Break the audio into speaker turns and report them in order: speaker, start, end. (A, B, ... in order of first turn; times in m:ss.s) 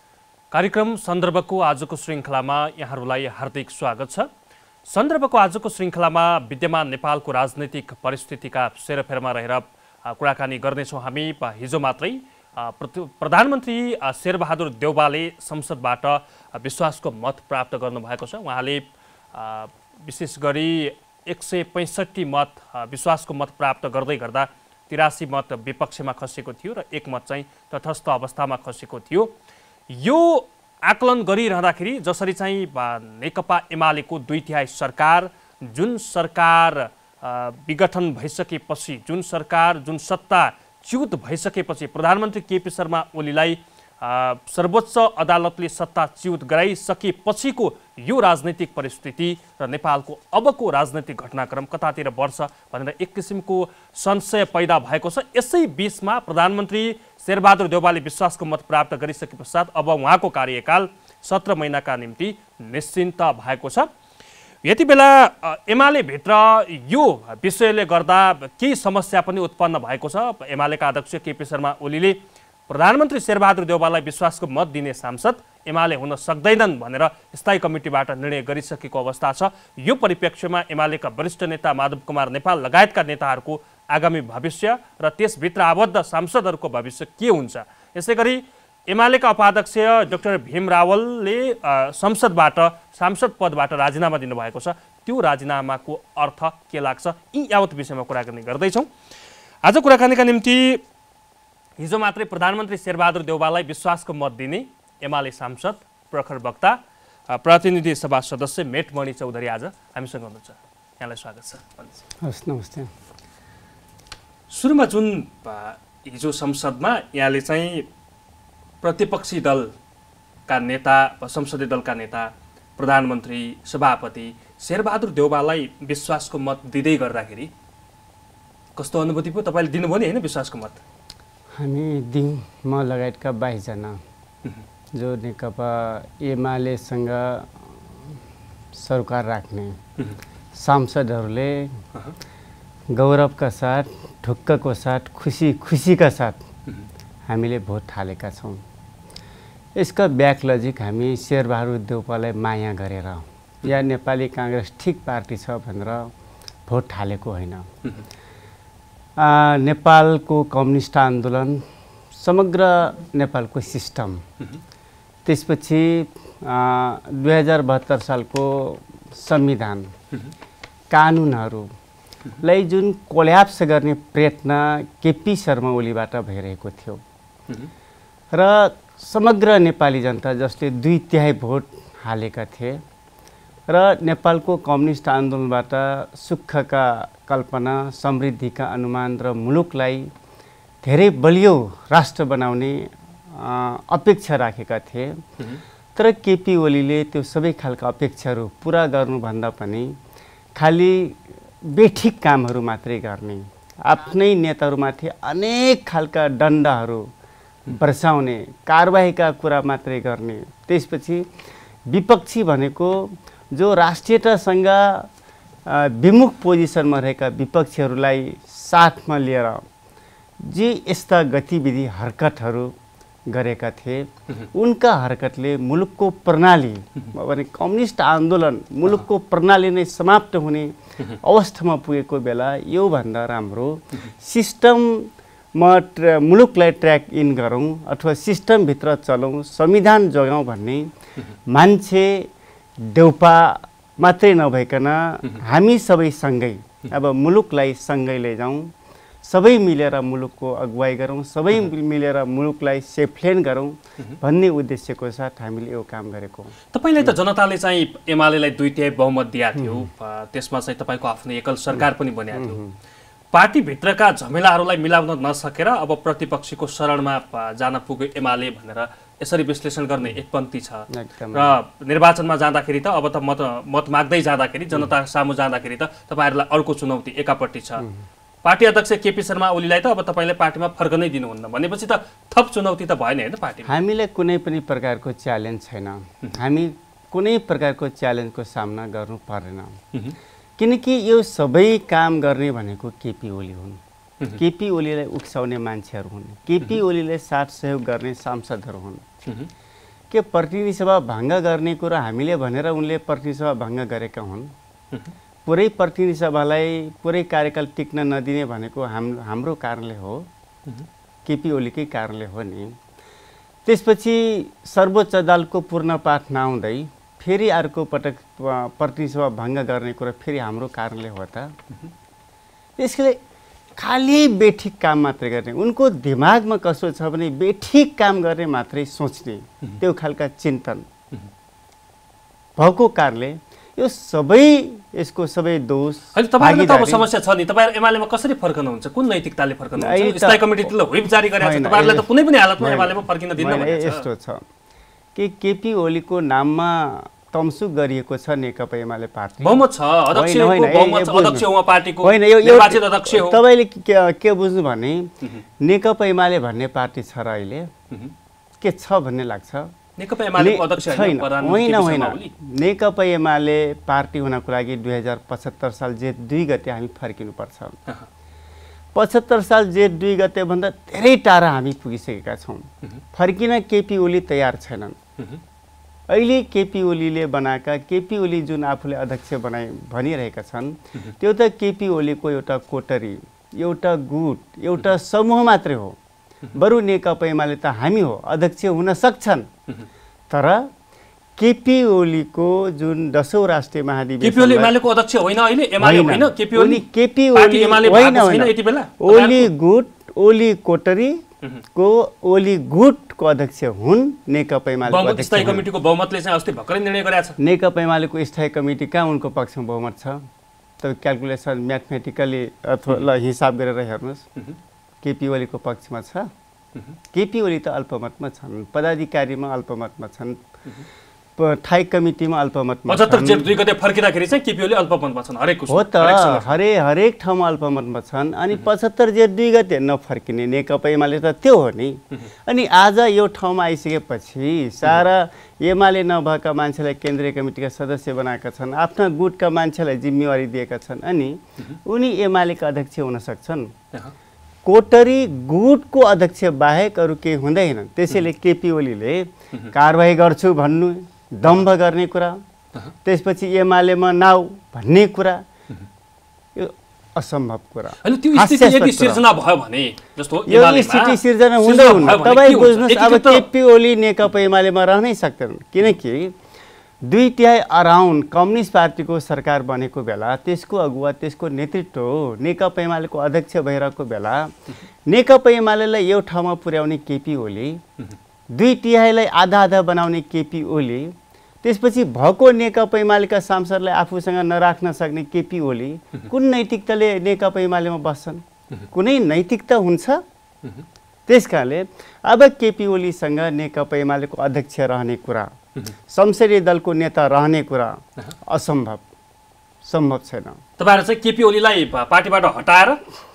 0:00.5-0:04.3 A
0:04.9-0:29.4 A
0:29.9-1:03.9 A
1:04.6-1:38.9 A
1:39.6-1:40.8 A
1:41.8-1:52.0 A
1:52.2-1:52.9 B
1:54.5-1:57.9 A
1:58.8-1:59.7 A
2:00.5-2:07.5 A
2:08.8-2:10.8 A
2:11.6-2:14.0 B
2:15.0-2:17.7 B
2:18.8-2:19.8 B
2:20.6-2:21.8 B
2:22.9-2:26.4 B
2:27.3-2:28.6 B
2:29.8-2:36.1 B
2:36.7-2:37.7 B
2:39.2-2:44.2 B
2:45.2-2:49.9 B
2:50.9-2:51.7 B
2:52.4-2:57.0 B
2:58.3-3:02.8 B
3:03.7-3:10.1 B
3:10.8-3:15.2 B
3:16.0-3:19.9 B
3:20.6-3:27.1 B
3:27.7-3:31.3 B
3:31.9-3:35.1 B
3:35.7-3:39.6 B
3:40.4-3:42.7 B
3:43.3-4:00.9 B
4:01.5-4:02.3 B
4:02.8-4:08.7 B
4:09.2-4:17.2 B
4:16.7-4:22.6 A
4:19.6-4:19.8 B
4:22.3-4:22.7 B
4:23.3-4:37.9 A
4:30.9-4:31.6 B
4:38.4-4:43.7 A
4:43.7-4:49.8 B
4:50.6-4:53.8 B
4:54.4-4:59.0 B
5:00.1-5:04.5 B
5:05.5-5:10.3 B
5:11.3-5:12.8 B
5:13.7-5:21.5 B
5:22.8-5:23.2 B
5:23.8-5:30.9 B
5:32.6-5:37.0 B
5:36.1-5:44.1 A
5:39.8-5:40.7 B
5:41.4-5:42.1 B
5:42.6-5:44.4 B
5:45.2-5:51.5 B
5:49.4-5:53.4 A
5:52.0-5:57.7 B
5:58.6-5:59.7 B
6:00.0-6:02.3 A
6:00.3-6:07.8 B
6:09.0-6:15.0 B
6:16.1-6:26.0 B
6:26.5-6:29.5 B
6:30.3-6:30.7 B
6:31.4-6:34.8 B
6:34.2-6:39.5 A
6:35.8-6:41.2 B
6:41.8-6:45.7 B
6:44.9-6:47.4 A
6:47.4-6:50.2 B
6:50.8-6:54.2 B
6:55.0-6:56.3 B
6:57.1-7:00.4 B
7:01.4-7:03.5 B
7:02.9-7:06.5 A
7:05.7-7:23.7 B
7:24.6-7:32.4 B
7:33.0-7:35.4 B
7:36.6-7:39.3 B
7:38.0-7:43.5 A
7:40.5-7:46.4 B
7:47.0-7:54.5 B
7:55.1-7:57.8 B
7:58.5-8:10.2 B
8:11.3-8:15.5 B
8:16.1-8:19.0 B
8:19.8-8:20.6 B
8:20.8-8:23.0 A